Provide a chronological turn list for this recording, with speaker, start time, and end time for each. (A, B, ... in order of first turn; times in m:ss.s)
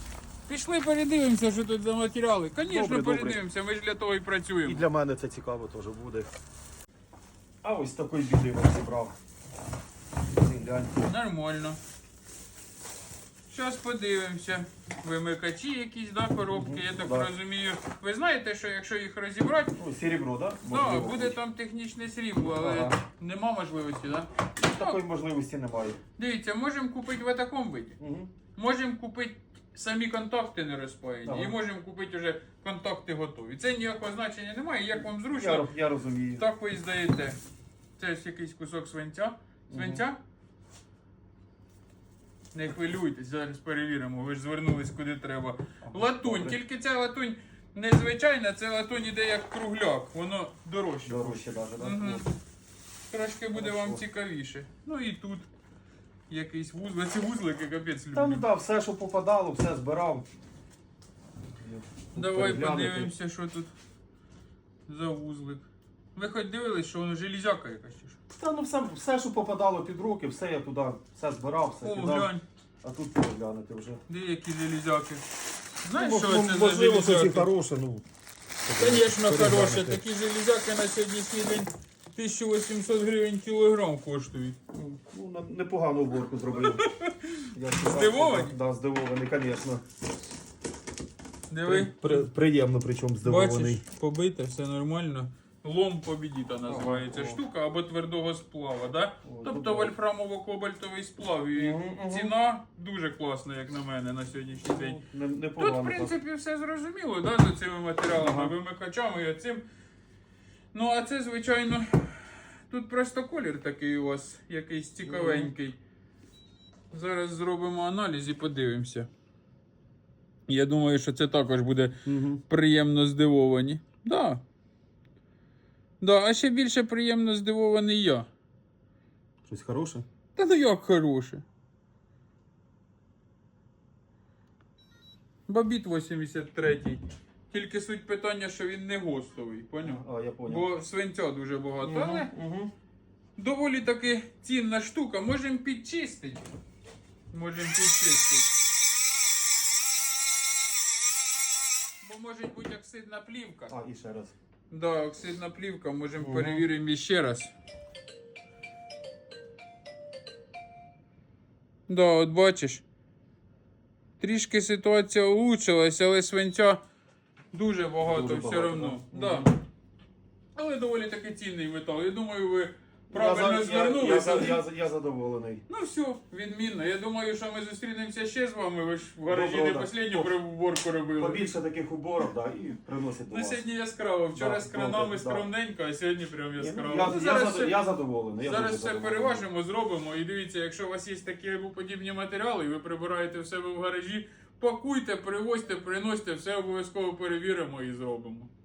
0:00.5-0:04.9 A
0:02.6-0:03.4 B
0:04.6-0:06.3 B
0:07.6-0:09.2 B
0:10.3-0:11.0 B
0:11.0-0:11.8 A
0:13.5-0:19.8 A
0:16.5-0:17.3 B
0:19.8-0:21.4 B
0:20.6-0:25.0 A
0:22.6-0:23.0 B
0:24.6-0:26.0 B
0:26.2-0:28.0 A
0:28.0-0:28.3 B
0:28.6-0:35.7 A
0:31.2-0:31.5 B
0:35.0-0:36.4 B
0:36.4-0:37.4 A
0:38.0-0:40.2 A
0:39.7-0:40.0 B
0:42.5-0:52.3 A
0:45.8-0:46.6 B
0:51.1-0:52.3 B
0:53.1-0:55.5 A
0:53.5-0:54.0 B
0:56.3-0:58.4 A
0:58.1-1:00.2 B
1:01.6-1:03.1 B
1:02.2-1:03.7 A
1:04.9-1:08.2 A
1:08.3-1:12.3 B
1:11.8-1:12.4 A
1:12.8-1:14.0 B
1:14.1-1:15.3 A
1:15.8-1:17.5 A
1:15.9-1:18.0 B
1:18.7-1:20.0 B
1:18.7-1:24.6 A
1:24.7-1:26.9 B
1:26.5-1:28.5 A
1:27.5-1:29.8 B
1:31.5-1:32.2 A
1:31.6-1:33.8 B
1:33.2-1:45.0 A
1:36.7-1:37.4 B
1:39.2-1:39.9 B
1:41.6-1:42.3 B
1:44.7-1:46.1 B
1:45.6-1:49.6 A
1:48.1-1:48.5 B
1:50.7-1:55.8 A
1:55.0-1:55.5 B
1:56.9-1:59.1 A
2:00.5-2:04.4 A
2:02.1-2:02.4 B
2:06.0-2:08.3 A
2:09.4-2:10.0 B
2:10.4-2:11.4 A
2:15.5-2:22.3 A
2:19.8-2:20.7 B
2:21.8-2:22.7 B
2:23.4-2:26.4 A
2:27.3-2:28.5 A
2:32.0-2:33.8 A
2:33.7-2:34.3 B
2:34.7-2:37.5 A
2:36.2-2:36.7 B
2:41.9-2:42.8 A
2:44.2-2:46.8 A
2:47.5-2:49.5 A
2:48.0-2:49.5 B
2:50.6-2:54.6 A
2:53.1-2:55.6 B
2:55.7-3:01.4 A
2:59.3-3:00.3 B
3:01.2-3:03.6 B
3:03.3-3:07.8 A
3:04.4-3:05.5 B
3:06.6-3:09.4 B
3:08.4-3:18.5 A